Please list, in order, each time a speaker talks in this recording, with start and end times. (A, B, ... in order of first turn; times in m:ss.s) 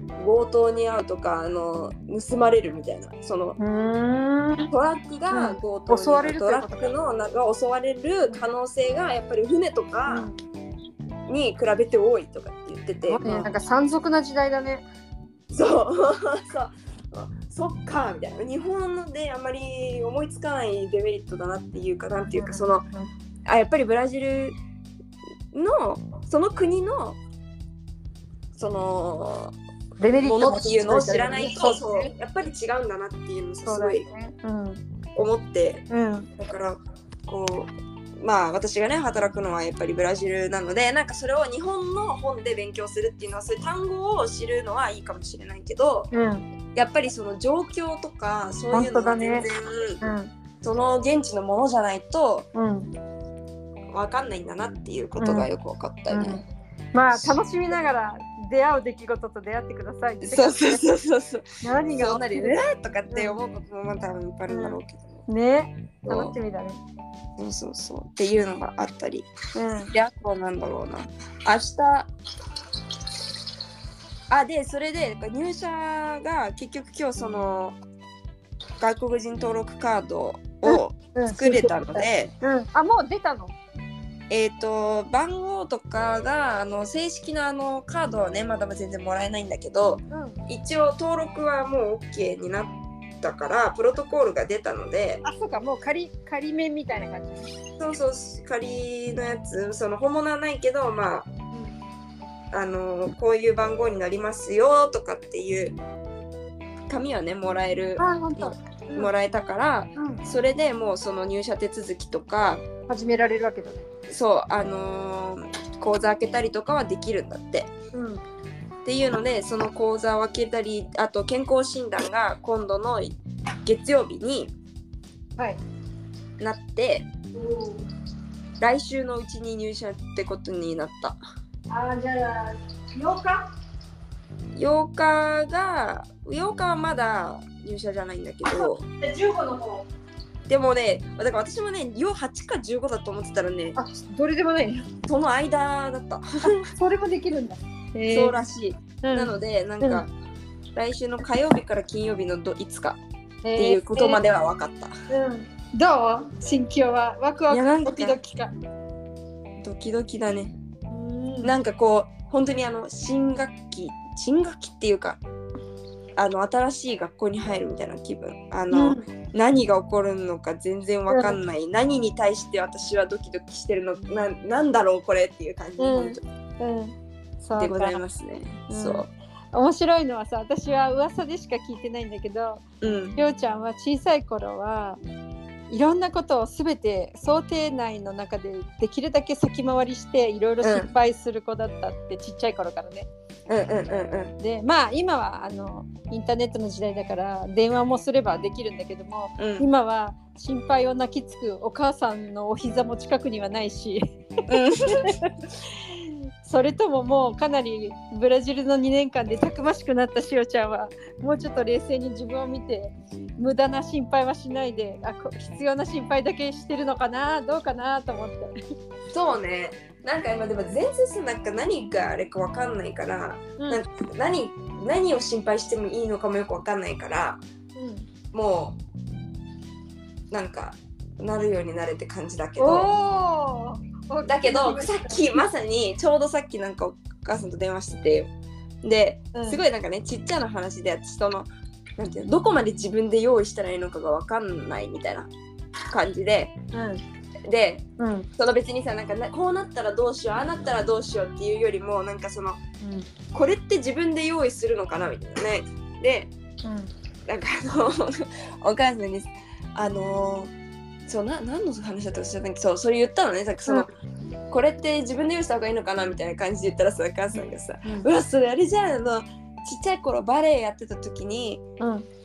0:00.2-0:03.6 A
0:03.6-0:04.7 B
0:04.7-0:10.3 A
0:05.3-0:06.9 B
0:10.1-0:10.4 B
0:11.3-0:13.5 A
0:13.1-0:14.8 B
0:15.5-0:22.9 A
0:22.2-0:23.1 B
0:23.5-0:24.6 A
0:25.5-0:27.2 A
0:28.5-0:29.5 A
0:30.0-0:32.1 B
0:30.2-0:34.0 A
0:33.7-0:34.8 B
0:35.2-0:35.9 A
0:35.9-0:36.3 B
0:36.4-0:46.1 A
0:46.1-0:46.5 B
0:46.8-0:50.0 A
0:48.7-0:49.5 B
0:50.0-0:50.3 B
0:50.6-0:52.5 A
0:52.6-0:52.9 B
0:53.9-0:56.4 A
0:55.2-0:55.5 B
0:56.1-0:56.4 B
0:56.9-1:00.9 B
0:57.1-0:57.4 A
1:00.2-1:05.2 A
1:01.6-1:02.6 B
1:03.1-1:03.4 B
1:04.5-1:06.8 B
1:06.0-1:06.3 A
1:07.4-1:09.3 A
1:09.6-1:09.9 B
1:09.9-1:12.1 A
1:14.3-1:17.8 A
1:18.8-1:22.3 A
1:20.6-1:23.6 B
1:24.3-1:35.2 A
1:30.1-1:30.4 B
1:35.2-1:37.5 B
1:37.8-1:41.3 A
1:42.5-1:45.8 A
1:46.9-1:52.6 A
1:48.0-1:49.1 B
1:50.0-1:50.2 B
1:52.9-1:53.9 B
1:54.1-1:57.7 A
1:57.9-1:58.2 B
1:58.8-2:04.5 A
2:06.4-2:07.1 A
2:07.3-2:07.8 B
2:08.6-2:11.2 A
2:11.7-2:13.5 B
2:14.6-2:18.8 A
2:18.5-2:19.9 B
2:20.5-2:23.8 A
2:23.8-2:24.9 B
2:25.1-2:26.7 A
2:26.4-2:28.4 B
2:28.1-2:30.1 A
2:29.0-2:30.0 B
2:30.8-2:33.0 A
2:33.4-2:34.2 B
2:33.6-2:34.9 A
2:35.1-2:38.5 B
2:37.5-2:38.2 A
2:39.6-2:40.6 A
2:40.9-2:41.5 B
2:41.4-2:45.2 A
2:46.2-2:56.2 A
2:48.7-2:49.0 B
2:51.1-2:51.4 B
2:55.8-2:58.0 B
2:57.6-2:59.1 A
2:58.7-3:02.6 B
3:02.8-3:03.2 A
3:03.2-3:05.0 B
3:05.7-3:13.1 B
3:10.6-3:10.9 A
3:13.5-3:14.4 A
3:14.4-3:24.0 B
3:19.4-3:19.7 A
3:24.5-3:25.2 A
3:24.9-3:38.5 B
3:39.1-3:47.4 A
3:47.8-3:48.1 B
3:48.3-3:48.8 A
3:50.3-3:52.9 A
3:52.6-3:55.3 B
3:54.2-3:58.3 A
3:58.8-4:05.3 A
3:59.3-3:59.6 B
4:05.9-4:06.5 A
4:06.7-4:07.0 B
4:07.5-4:07.8 A
4:08.0-4:08.3 B
4:08.4-4:12.6 A
4:12.8-4:13.1 B
4:13.3-4:16.3 A
4:16.6-4:16.9 B
4:17.3-4:20.5 A
4:21.1-4:23.9 A
4:24.5-4:31.6 A
4:27.4-4:28.1 B
4:31.8-4:32.1 B